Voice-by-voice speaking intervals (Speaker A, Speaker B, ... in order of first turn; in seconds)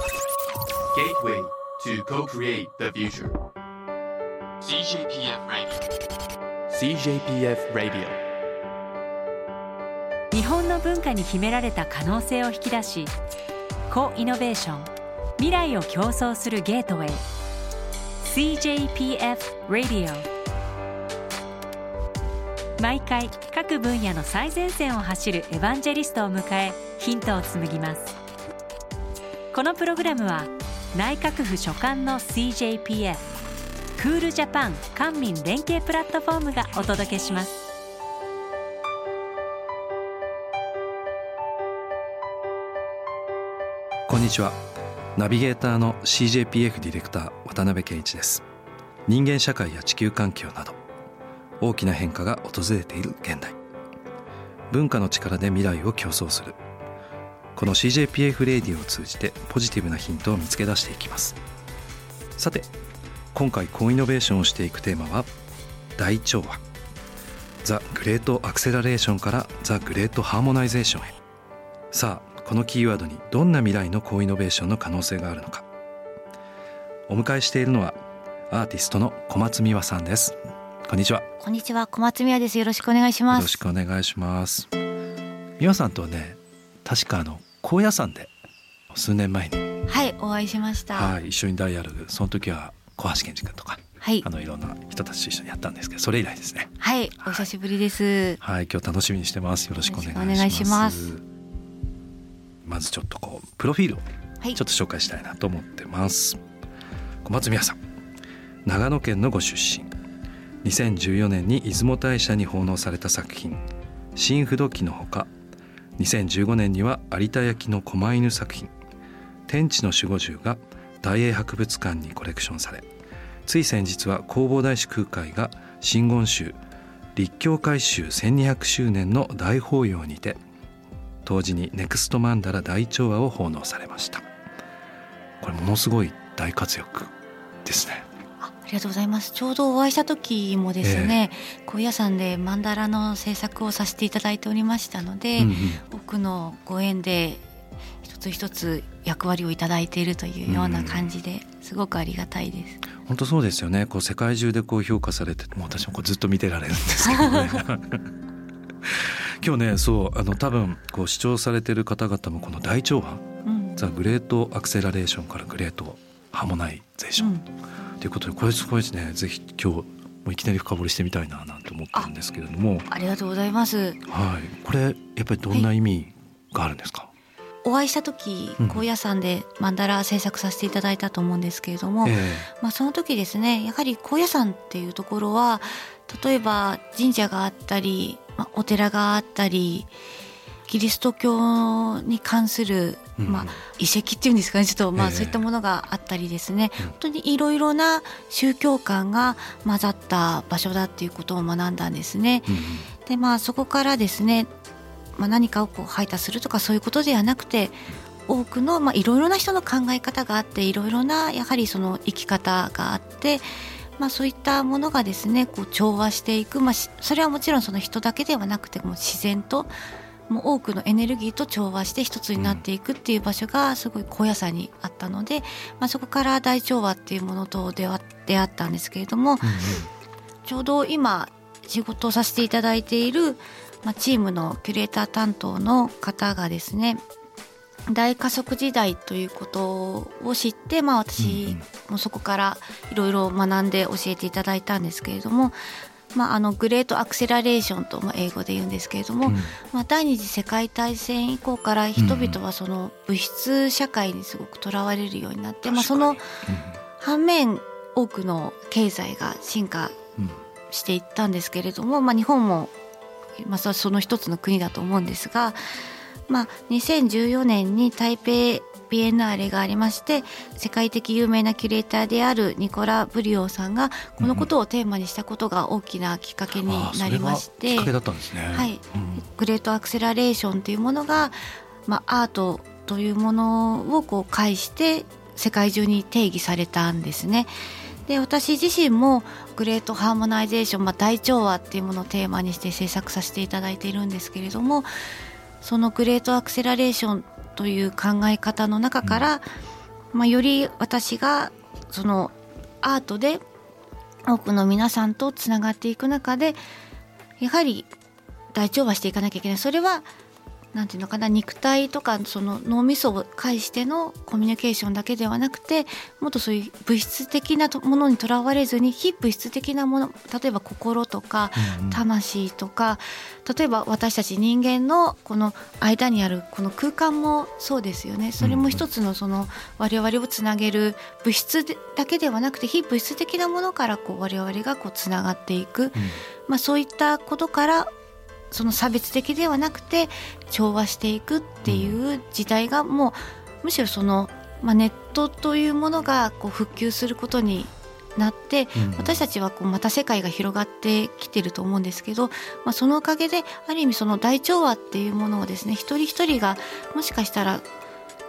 Speaker A: 0.9-3.4, 4.6-5.8, 6.7-8.2
Speaker B: 10.3-13.1, 13.9-17.2, 18.2-20.3, 22.8-28.1, 29.5-33.2, 34.0-37.6
Speaker C: 44.1-44.6, 45.1-48.4, 49.1-50.8, 51.6-53.6, 54.7-56.6, 57.5-61.4, 62.4-62.7, 63.3-65.3, 66.0-66.6, 67.6-71.2, 71.9-75.7, 77.1-78.0, 78.5-81.3, 83.3-84.7, 85.6-88.3, 88.9-89.7, 90.9-96.7, 98.4-101.2, 102.6-104.0, 104.5-106.4, 107.2-107.8, 108.6-109.9, 110.6-113.6, 114.1-115.3, 116.0-118.7, 119.5-122.9, 123.5-126.6, 127.1-130.4, 131.2-134.2, 135.4-137.1, 137.6-138.1, 140.8-141.2, 145.4-145.8, 150.5-151.1, 153.0-158.1, 158.8-163.2, 163.8-167.3, 168.0-172.9, 174.0-177.1, 178.6-178.8, 182.0-182.5, 193.2-193.5, 194.9-195.4, 202.5-202.9, 222.4-222.6, 229.4-229.9, 241.2-241.7, 249.2-249.5, 251.9-252.4, 255.6-256.8, 274.2-274.5, 276.6-279.2, 321.6-322.0, 328.4-328.8, 335.9-336.2, 341.6-342.0, 348.7-349.2
Speaker D: 81.4-83.6, 89.9-91.1, 96.8-98.4, 99.8-101.1, 138.4-147.4, 148.0-152.8, 157.0-157.6, 163.4-163.9, 167.2-167.4, 172.9-174.0, 177.6-189.9, 190.7-204.5, 205.2-213.4, 214.0-219.7, 220.3-229.7, 230.4-237.0, 237.9-245.6, 246.1-256.2, 257.0-260.0, 260.7-262.7, 263.4-265.6, 266.3-277.9, 278.5-287.5, 288.1-294.9, 295.6-299.5, 300.1-303.4, 304.2-306.6, 307.4-307.9, 308.5-310.1, 310.7-337.9, 338.5-357.6